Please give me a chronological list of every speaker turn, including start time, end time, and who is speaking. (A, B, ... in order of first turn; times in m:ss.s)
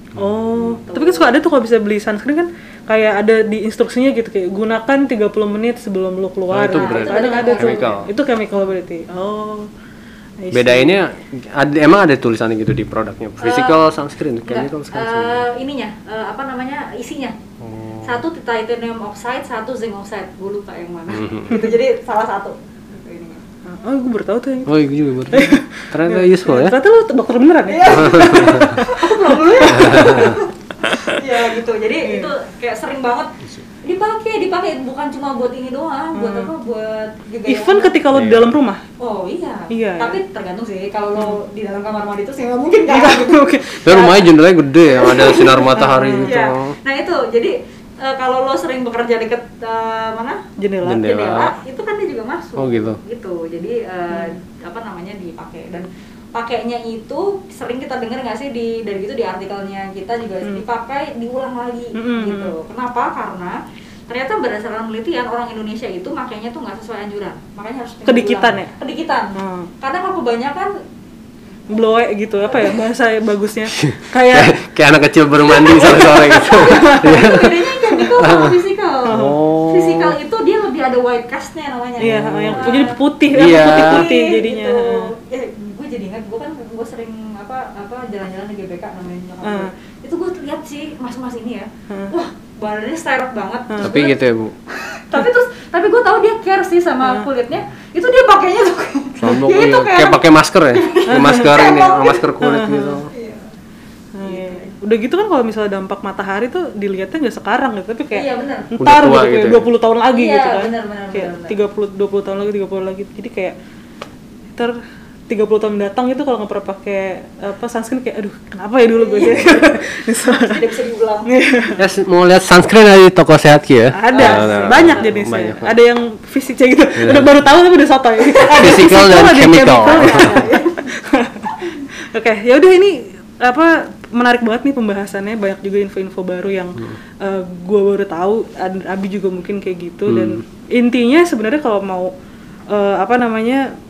0:00.1-0:00.8 A
0:00.2-0:09.7 B
0:00.6-0:01.3 C
0:06.5-0:08.1 A
0:06.7-0:08.0 C
0:10.4-0:11.0 B
0:10.5-0:15.4 A
0:13.4-0:13.8 C
0:14.5-0:17.4 C
0:17.6-0:18.2 A
0:18.0-0:23.4 C
0:21.1-0:21.6 A
0:23.6-0:30.4 B
0:24.6-0:26.8 A
0:27.7-0:38.0 C
0:28.1-0:28.7 A
0:29.7-0:30.3 A
0:32.0-0:32.3 B
0:36.1-0:36.5 B
0:37.5-0:38.8 B
0:38.1-0:38.5 A
0:39.0-0:44.3 C
0:39.7-0:40.2 B
0:42.9-0:44.2 B
0:43.8-0:46.8 A
0:44.8-1:10.7 C
0:45.7-0:46.4 B
0:50.6-0:51.1 B
0:50.8-0:51.5 A
0:52.6-0:53.0 A
0:54.1-0:54.4 B
1:02.0-1:02.5 B
1:08.0-1:08.7 B
1:09.4-1:09.7 B
1:11.7-1:14.5 B
1:12.5-1:12.7 C
1:13.8-1:20.2 A
1:15.4-1:42.2 C
1:16.6-1:17.2 B
1:19.1-1:19.4 B
1:22.0-1:25.1 B
1:22.0-1:24.1 A
1:29.4-1:29.7 B
1:33.7-1:34.1 B
1:33.8-1:34.5 A
1:39.2-1:43.1 A
1:41.1-1:41.6 B
1:42.4-1:43.0 B
1:43.1-1:43.5 C
1:44.1-1:53.6 B
1:44.2-1:44.7 C
1:48.1-1:48.7 C
1:48.8-1:49.7 A
1:50.1-1:51.6 C
1:54.5-2:00.6 B
1:58.9-1:59.7 C
2:00.3-2:01.3 C
2:01.3-2:01.8 B
2:01.8-2:05.7 A
2:03.9-2:22.1 B
2:04.1-2:05.1 C
2:07.0-2:07.3 A
2:08.2-2:08.8 C
2:08.5-2:10.5 A
2:09.6-2:10.9 C
2:11.5-2:11.8 C
2:20.1-2:20.4 A
2:22.7-2:23.7 B